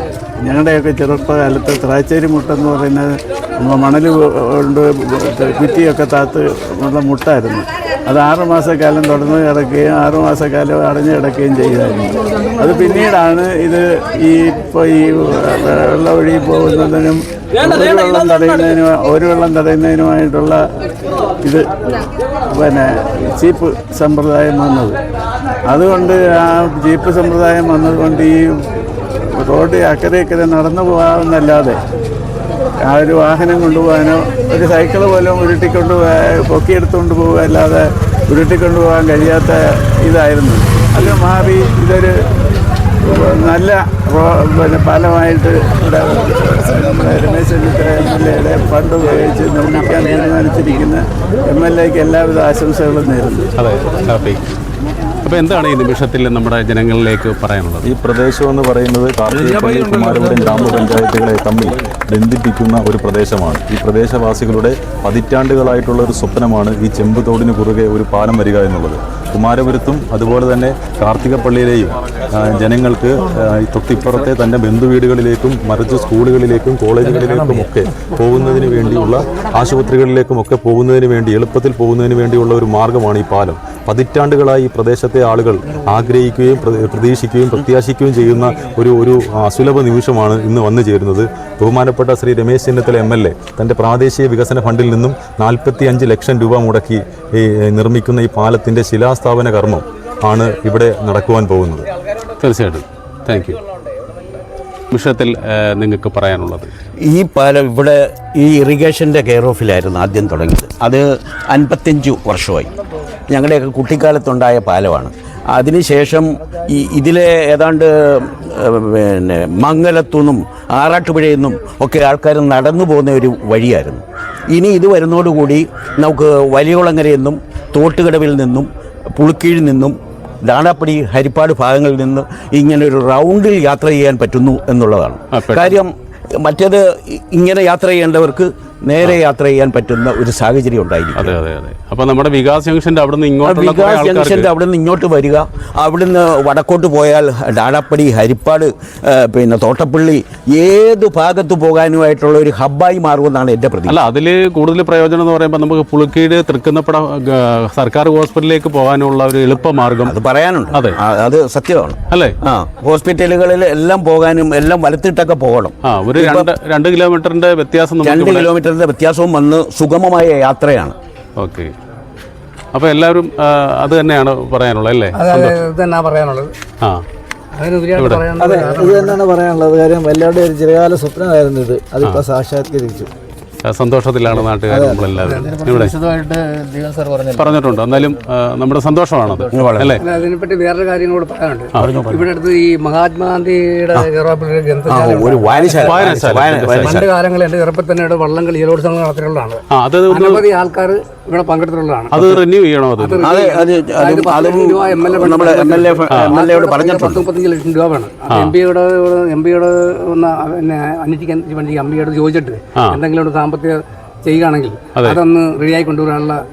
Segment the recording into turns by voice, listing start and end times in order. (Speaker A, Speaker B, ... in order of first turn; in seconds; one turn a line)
Speaker A: 0.4-20.6
Speaker A: 22.5-25.0
Speaker A: 25.7-28.4
Speaker A: 29.2-31.8
Speaker A: 32.8-42.1
Speaker A: 43.0-53.5
Speaker B: 53.6-54.4
Speaker B: 55.2-57.9
Speaker C: 57.8-101.8
Speaker B: 102.4-103.6
Speaker B: 104.9-106.7
Speaker D: 107.0-112.7
Speaker D: 113.3-141.3
Speaker B: 135.3-135.8
Speaker B: 141.2-144.5
Speaker D: 143.4-154.0
Speaker B: 153.9-160.2
Speaker D: 160.0-166.5
Speaker B: 165.9-168.5
Speaker D: 168.0-170.9
Speaker B: 171.4-171.7
Speaker B: 172.7-175.5
Speaker E: 175.1-176.5
Speaker E: 177.5-179.2
Speaker B: 178.0-178.3
Speaker F: 178.4-183.1
Speaker B: 183.6-185.9
Speaker F: 184.3-185.3
Speaker B: 187.3-190.0
Speaker D: 189.5-189.9
Speaker E: 190.0-196.1
Speaker B: 191.8-192.1
Speaker D: 194.9-197.1
Speaker B: 195.8-197.0
Speaker E: 196.6-202.3
Speaker B: 199.7-200.4
Speaker B: 202.1-203.2
Speaker E: 203.0-216.4
Speaker D: 203.2-207.2
Speaker B: 206.1-206.4